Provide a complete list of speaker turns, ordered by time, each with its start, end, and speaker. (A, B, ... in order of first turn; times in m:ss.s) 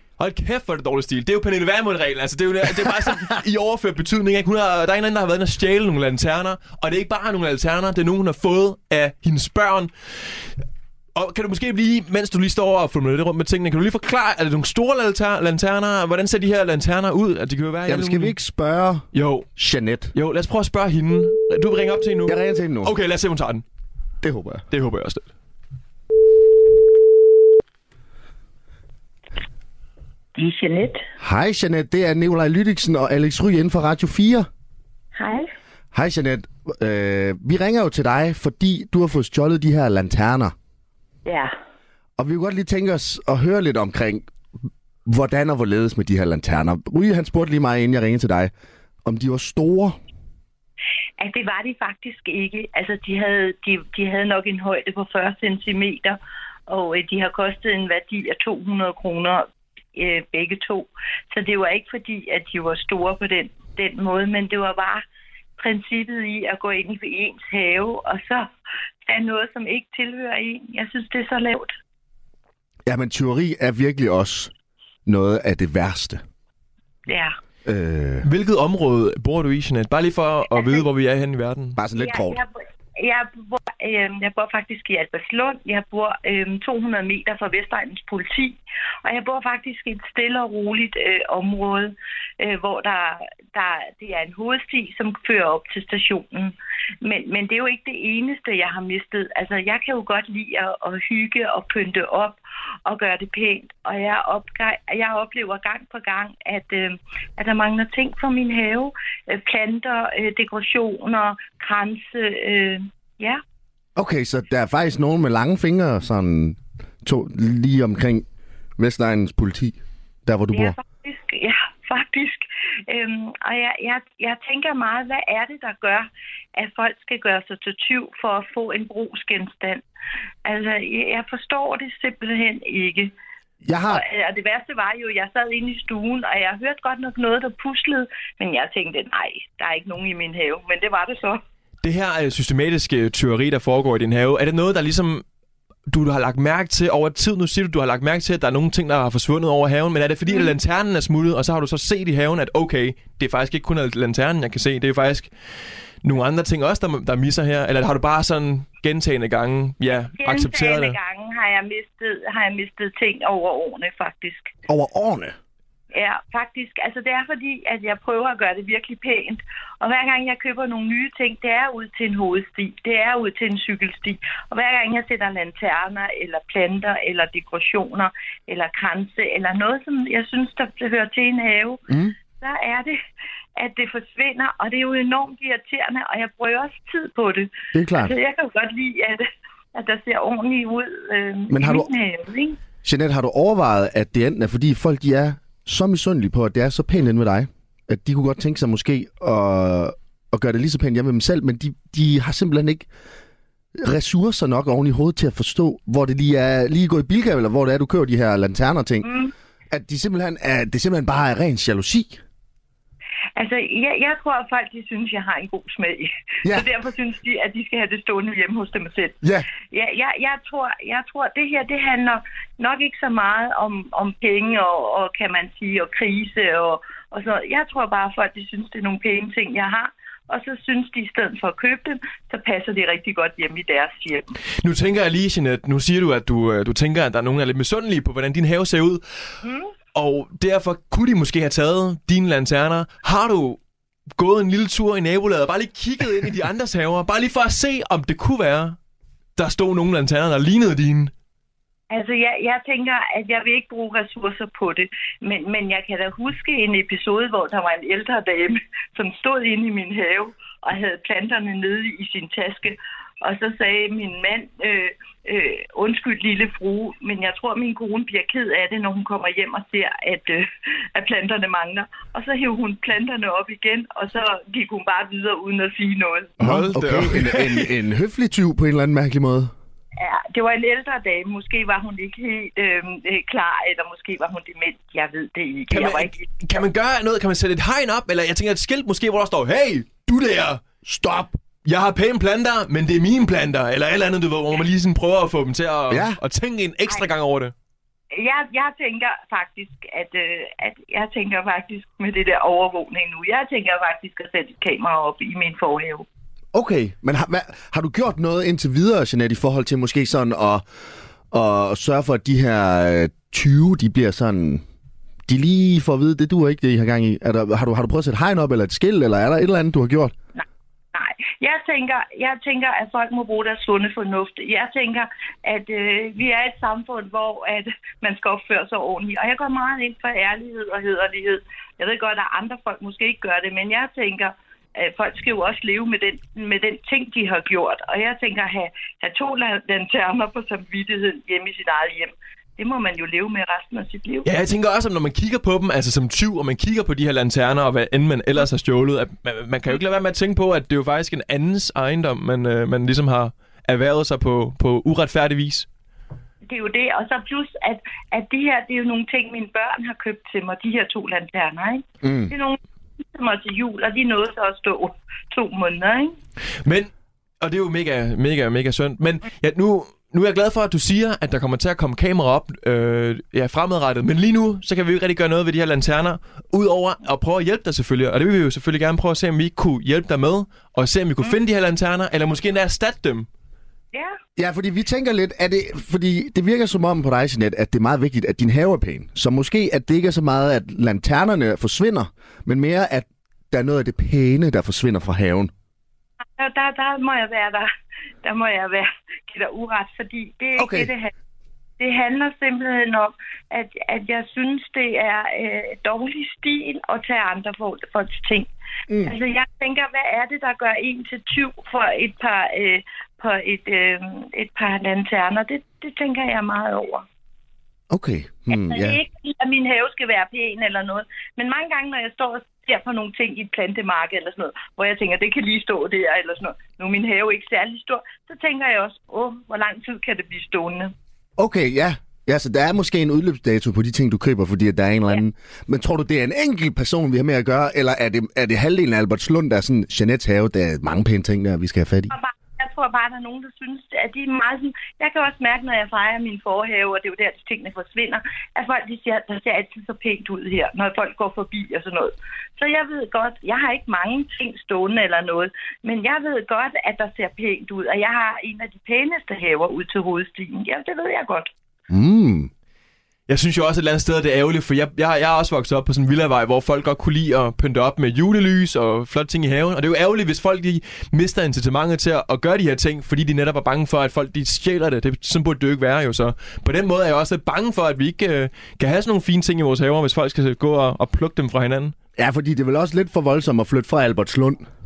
0:00.2-0:10.5 A
0:11.2-0:18.4 A
0:17.9-0:20.1 B
0:19.1-0:19.5 A
0:20.1-0:23.6 A
0:22.3-0:22.9 B
0:24.2-0:24.7 B
0:24.7-0:25.3 A
0:30.4-0:31.0 C
0:31.2-0:34.5 B
0:35.2-0:35.5 C
0:35.9-0:40.5 B
0:41.3-0:41.6 C
0:42.2-0:44.3 B
0:45.1-0:48.5 B
0:49.0-0:50.0 B
0:51.2-0:56.2 C
0:56.7-1:05.0 C
1:05.6-1:08.5 C
1:09.0-1:11.8 C
1:12.9-1:14.5 B
1:15.1-1:16.2 B
1:17.1-1:17.4 C
1:17.7-1:18.3 B
1:18.2-1:21.8 A
1:20.5-1:20.8 C
1:21.8-1:22.4 B
1:22.0-1:53.4 C
1:54.0-1:58.2 B
1:58.8-2:00.8 B
2:00.5-2:09.8 C
2:10.4-2:13.1 C
2:13.6-2:14.0 B
2:13.9-2:21.4 C
2:21.8-2:25.2 A
2:25.9-2:35.3 A
2:30.3-2:30.5 C
2:36.0-2:41.0 A
2:40.2-2:44.5 C
2:44.7-2:45.4 B
2:45.9-3:01.8 C
3:01.9-3:02.2 B
3:02.4-3:03.0 C
3:03.6-3:12.6 C
3:07.7-3:08.1 B
3:11.5-3:11.9 B
3:12.8-3:22.9 B
3:23.8-3:29.1 B
3:29.0-3:29.3 C
3:29.7-3:32.2 B
3:33.4-3:54.3 C
3:36.4-3:36.7 B
3:39.2-3:39.5 B
3:54.6-3:59.0 A
3:59.4-3:59.7 C
4:00.0-4:03.6 A
4:04.2-4:08.8 A
4:09.4-4:11.1 A
4:11.9-4:36.3 C
4:36.4-4:37.8 A
4:36.4-4:39.5 B
4:40.0-4:46.2 C
4:45.7-4:50.6 A
4:50.8-4:51.4 B
4:51.6-4:57.5 A
4:55.9-4:56.2 B
4:58.1-5:06.1 C
5:06.5-5:10.6 B
5:11.3-5:14.6 B
5:15.3-5:20.2 B
5:20.4-5:44.3 C
5:44.2-5:55.7 A
5:56.5-6:02.6 C
6:02.0-6:02.3 B
6:03.1-6:06.2 C
6:06.6-6:06.9 A
6:07.4-6:23.3 A
6:24.4-6:35.5 B
6:36.2-6:37.7 C
6:38.2-6:41.1 C
6:40.6-6:40.9 B
6:41.8-6:48.5 C
6:48.9-6:49.1 B
6:49.0-6:57.0 C
6:57.9-6:59.0 B
6:58.5-7:10.9 C
7:11.4-7:22.1 B
7:22.1-7:41.5 C
7:41.9-7:42.5 B
7:43.3-8:02.0 A
8:02.2-8:04.6 B